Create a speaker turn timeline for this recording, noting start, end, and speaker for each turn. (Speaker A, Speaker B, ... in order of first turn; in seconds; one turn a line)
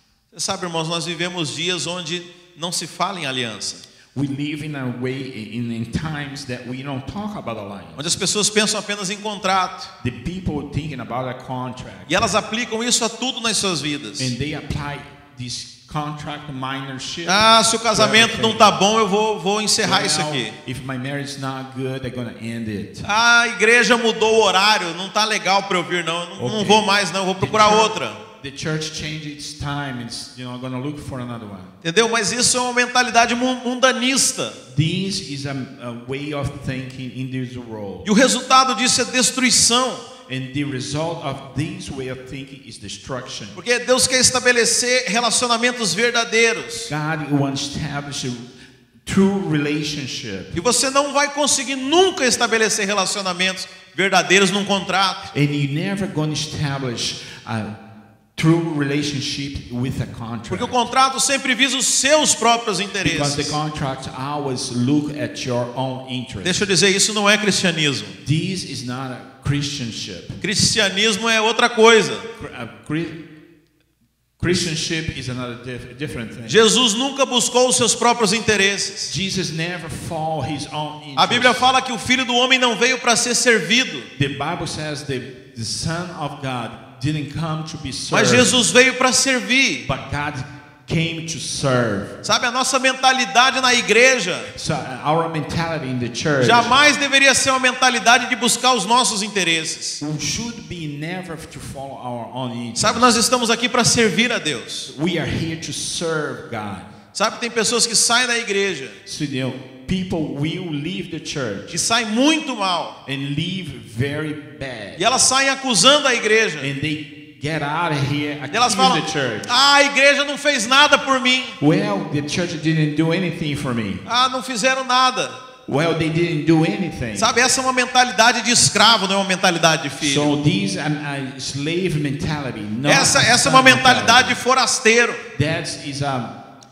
Speaker A: 0.3-3.8
Speaker B: 4.1-8.1
Speaker A: 8.0-9.9
Speaker B: 10.0-12.3
Speaker A: 12.1-14.3
Speaker B: 14.2-18.8
Speaker A: 17.3-20.5
Speaker B: 19.8-23.1
Speaker A: 23.0-28.2
Speaker B: 26.4-26.9
Speaker B: 27.4-31.7
Speaker A: 31.8-34.6
Speaker B: 34.7-38.1
Speaker A: 38.0-40.1
Speaker B: 40.3-43.6
Speaker A: 43.6-46.9
Speaker B: 46.9-48.5
Speaker B: 49.1-50.6
Speaker A: 50.5-55.3
Speaker B: 55.3-57.7
Speaker B: 58.4-60.8
Speaker A: 60.5-63.6
Speaker B: 63.0-66.7
Speaker A: 66.4-68.2
Speaker B: 68.2-70.4
Speaker A: 70.4-72.3
Speaker B: 72.4-73.2
Speaker B: 74.4-76.7
Speaker A: 76.5-79.1
Speaker B: 79.1-81.7
Speaker A: 81.2-84.1
Speaker B: 84.2-88.7
Speaker A: 88.1-89.9
Speaker B: 89.9-92.2
Speaker A: 92.2-94.5
Speaker B: 94.5-96.8
Speaker A: 96.4-100.0
Speaker B: 100.0-103.1
Speaker A: 102.8-104.9
Speaker B: 104.9-106.9
Speaker A: 107.1-109.0
Speaker B: 109.0-111.8
Speaker A: 111.7-113.0
Speaker B: 113.1-115.0
Speaker A: 115.0-116.7
Speaker B: 116.6-119.5
Speaker A: 118.5-121.6
Speaker B: 121.6-124.0
Speaker A: 124.0-125.4
Speaker B: 125.7-127.4
Speaker A: 127.2-130.3
Speaker B: 130.0-134.4
Speaker A: 132.8-135.2
Speaker B: 135.3-136.3